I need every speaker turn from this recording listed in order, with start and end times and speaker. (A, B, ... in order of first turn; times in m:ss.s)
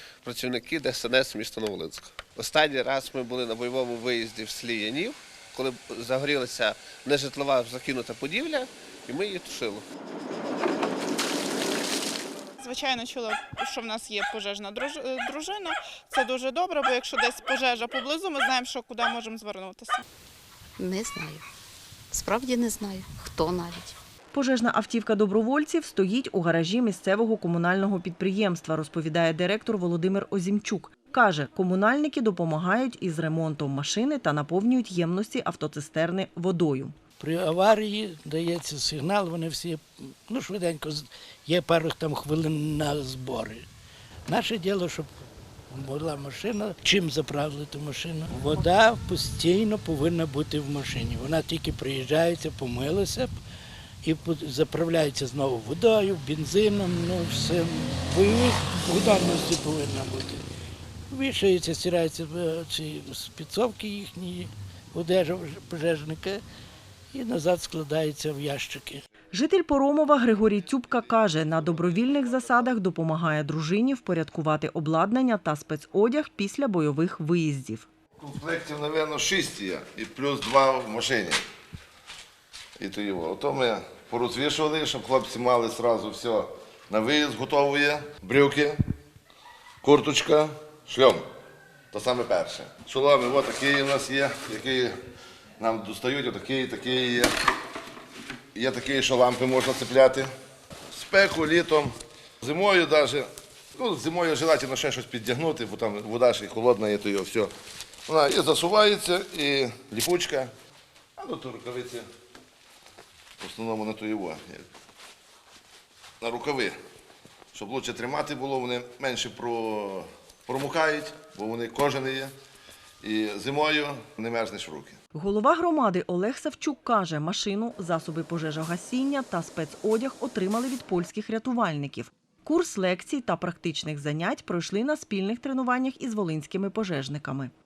0:00.2-0:09.8 A
0:12.6-0:20.0 B
0:20.8-0:21.5 C
0:22.1-0:24.0 C
0:24.3-0:37.0 D
0:37.2-0:43.7 E
0:44.3-0:45.1 E
0:45.7-0:53.4 E
0:54.0-1:00.4 E
1:01.1-1:06.4 E
1:07.1-1:09.0 E
1:09.3-1:17.9 D
1:18.2-1:21.4 F
1:22.8-1:28.8 F
1:29.8-1:31.2 F
1:31.9-1:35.0 F
1:35.6-1:37.3 F
1:38.5-1:40.3 F
1:40.9-1:47.5 F
1:48.1-1:50.5 F
1:51.2-1:52.1 F
1:53.4-1:54.7 F
1:56.2-1:56.8 F
1:57.5-2:02.3 F
2:03.0-2:05.0 F
2:05.2-2:17.5 D